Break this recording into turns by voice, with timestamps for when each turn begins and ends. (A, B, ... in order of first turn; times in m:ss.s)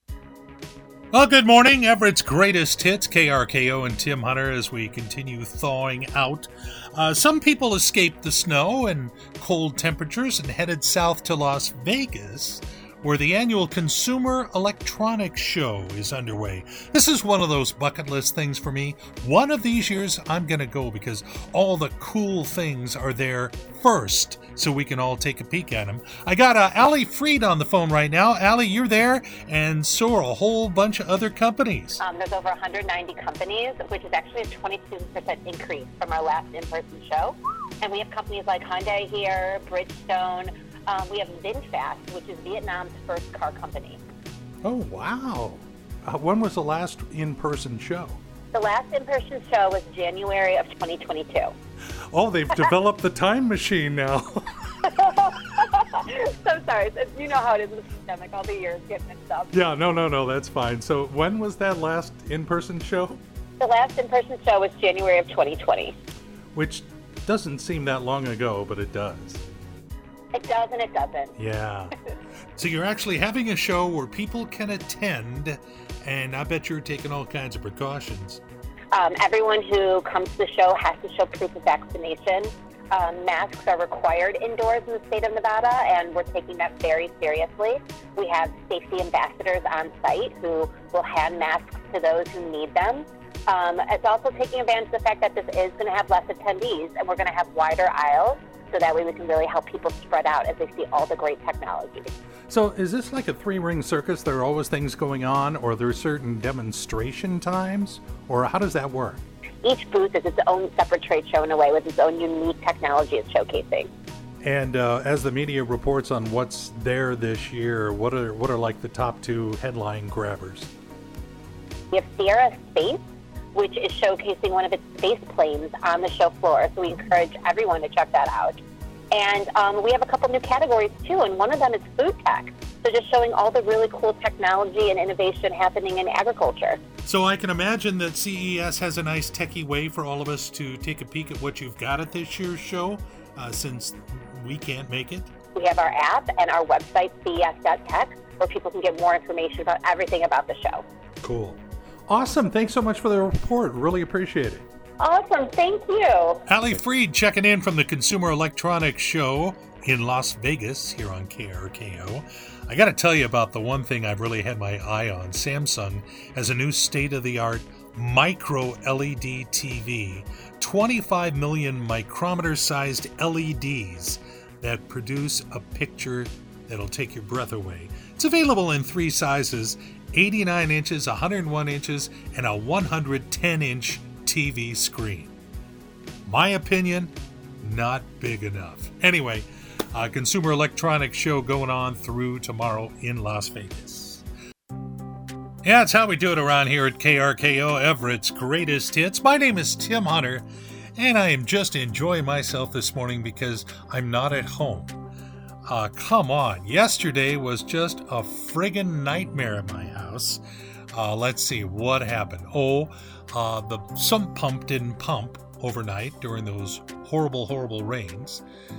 0:01.1-0:32.0 A
0:32.0-0:44.0 B
0:44.6-0:48.2 A
0:48.5-0:51.5 B
0:52.1-0:54.9 A
0:54.8-0:59.6 B
0:59.5-1:03.2 A
1:03.6-1:06.0 B
1:06.5-1:09.4 A
1:10.3-1:11.3 B
1:11.4-1:11.9 A
1:12.6-1:18.4 A
1:18.9-1:42.1 B
1:42.5-1:49.2 A
1:49.6-1:53.9 B
1:54.4-2:00.7 A
2:01.9-2:03.0 B
2:03.5-2:08.6 B
2:09.1-2:16.8 B
2:17.0-2:25.3 A
2:25.5-2:30.8 B
2:31.2-2:34.6 A
2:35.0-2:36.4 B
2:36.5-3:05.3 A
3:06.2-3:14.2 A
3:15.6-3:25.0 A
3:25.7-3:38.4 A